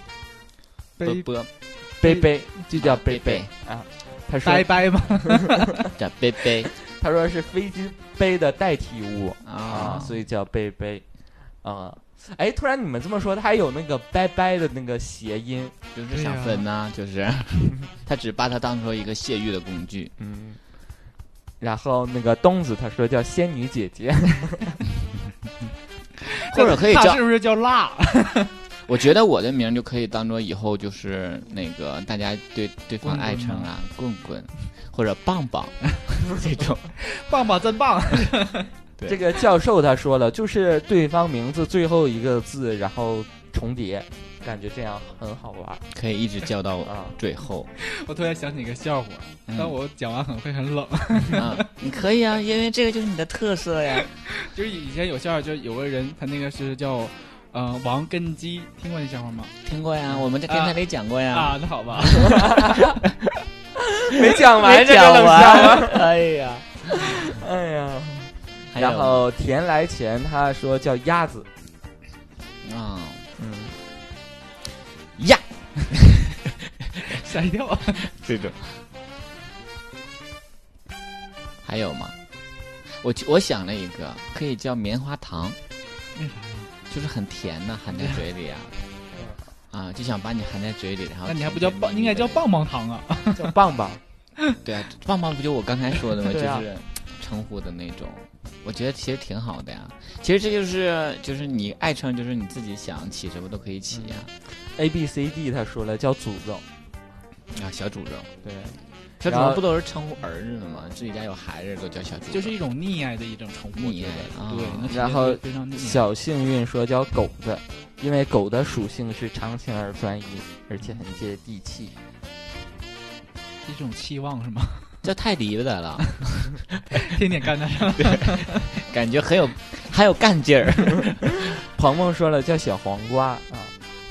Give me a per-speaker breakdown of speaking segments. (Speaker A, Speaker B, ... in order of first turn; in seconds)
Speaker A: 1.0-2.3, 4.4-5.7, 9.8-10.1, 16.1-16.6, 26.4-28.5, 33.0-33.7, 37.0-38.7, 47.8-51.6, 54.4-59.5, 60.5-60.8, 61.3-62.8, 77.1-78.0, 86.2-86.7, 87.9-88.2, 91.3-93.5, 112.3-116.1, 123.6-125.0, 127.0-128.7
Speaker B: 1.0-1.5, 2.8-3.5, 6.0-6.7, 9.4-10.1, 15.9-20.1, 26.5-27.2, 28.9-36.9, 45.9-47.7, 49.5-49.8, 51.3-54.1, 59.6-61.6, 64.3-66.7, 68.7-69.2, 72.6-73.3, 78.0-78.8, 81.6-82.2, 82.8-85.6, 86.9-88.8, 89.7-92.5, 94.6-104.3, 107.5-108.3, 109.2-112.5, 113.8-115.0, 125.0-127.2, 128.0-131.5
Speaker C: 2.0-5.2, 6.8-11.1, 11.6-15.7, 20.2-20.6, 21.6-24.8, 39.1-45.8, 46.9-47.1, 62.3-63.0, 63.9-66.1, 67.0-71.5, 73.4-73.7, 93.3-94.0, 96.3-96.7, 103.9-106.6, 108.4-109.6, 114.9-121.9, 131.6-133.7